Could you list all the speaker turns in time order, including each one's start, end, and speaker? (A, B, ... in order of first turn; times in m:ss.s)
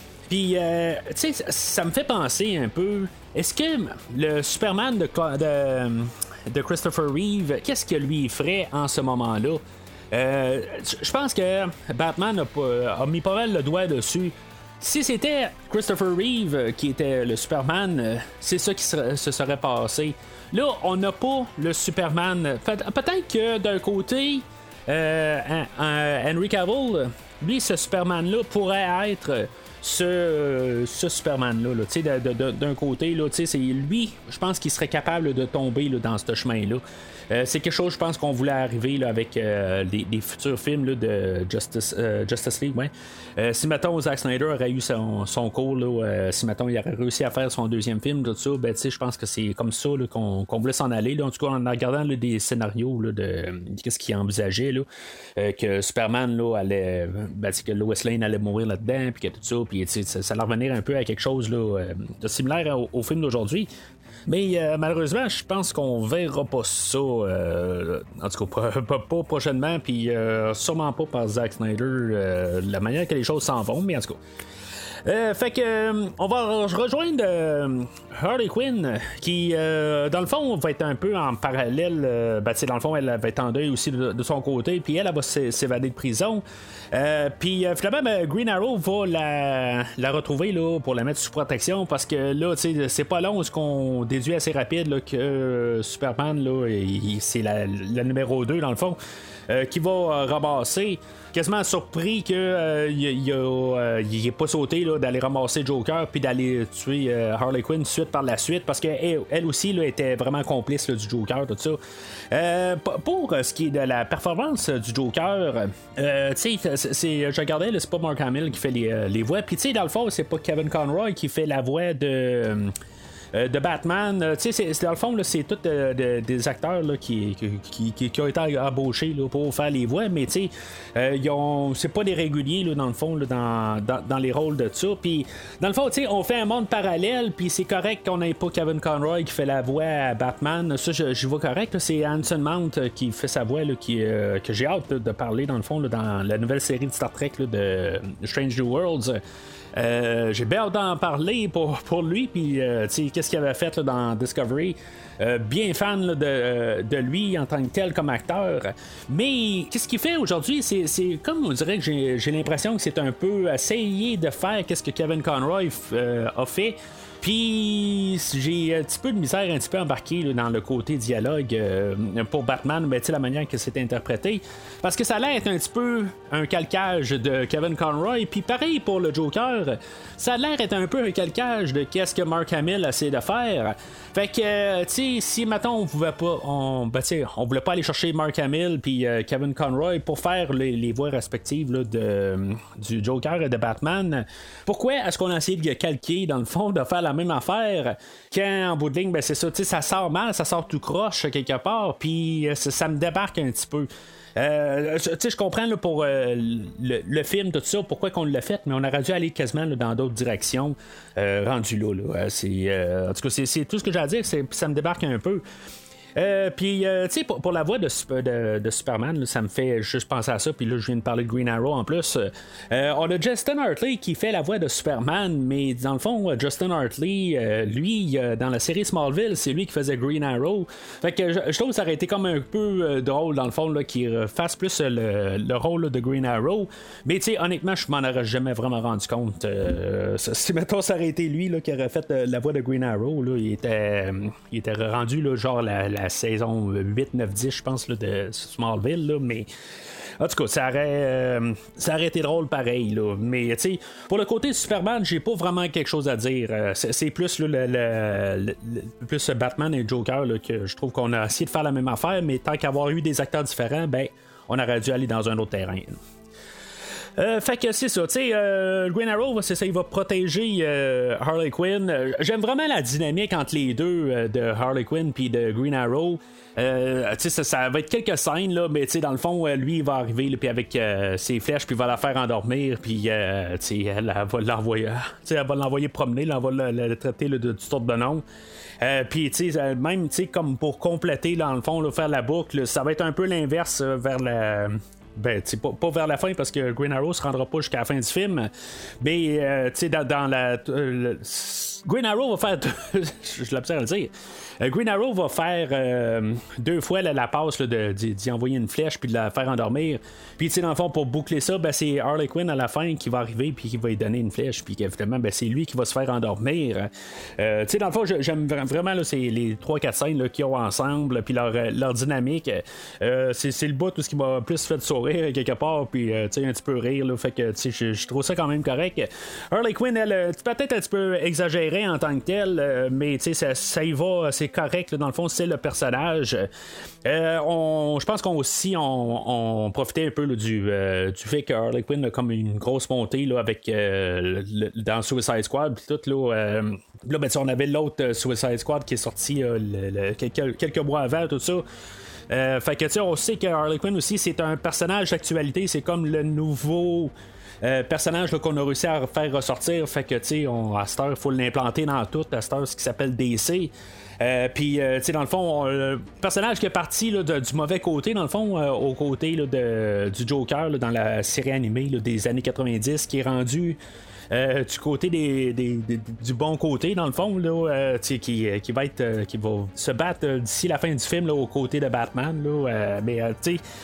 0:00.3-1:03.7 A
1:04.3-1:14.2 A
1:15.0-2:02.7 A
2:03.3-2:29.2 A
2:29.7-3:35.4 A
3:36.2-4:09.5 A
4:10.2-4:26.0 A
4:27.2-4:48.2 A
4:48.8-4:58.5 A
4:59.0-5:36.5 A
5:37.0-5:51.6 A
5:52.3-6:13.8 A
6:14.3-6:23.6 A